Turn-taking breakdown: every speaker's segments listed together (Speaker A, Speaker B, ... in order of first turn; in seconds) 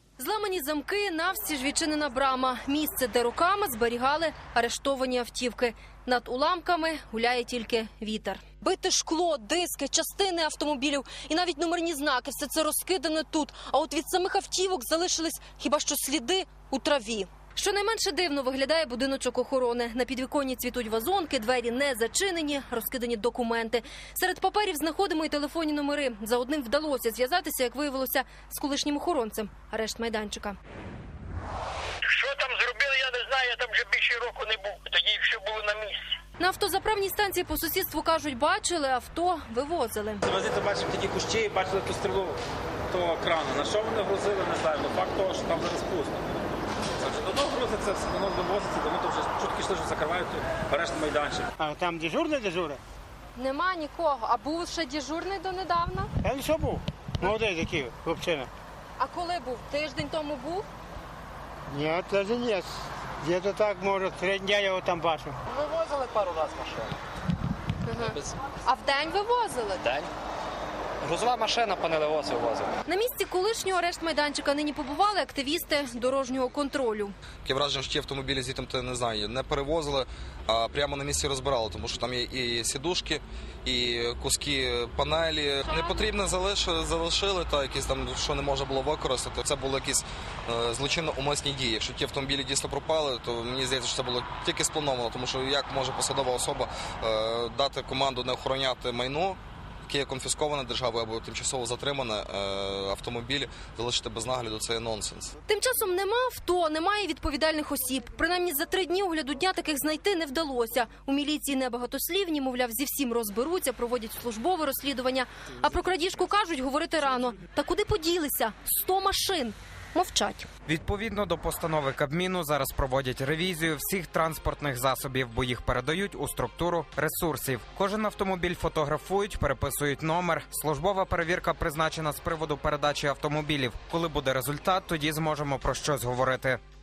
Speaker A: 0.2-30.6, 36.4-40.2, 53.3-56.1, 59.0-60.6, 67.8-69.9, 72.9-77.1, 85.7-86.1, 105.5-120.5
Speaker B: 32.1-35.9
Speaker C: 40.2-46.2, 47.0-51.5
Speaker D: 51.6-52.8, 56.2-58.5, 61.7-65.3
Speaker E: 65.5-66.9, 69.8-70.1, 71.0-72.7
Speaker F: 77.4-105.3
Speaker G: 120.7-136.6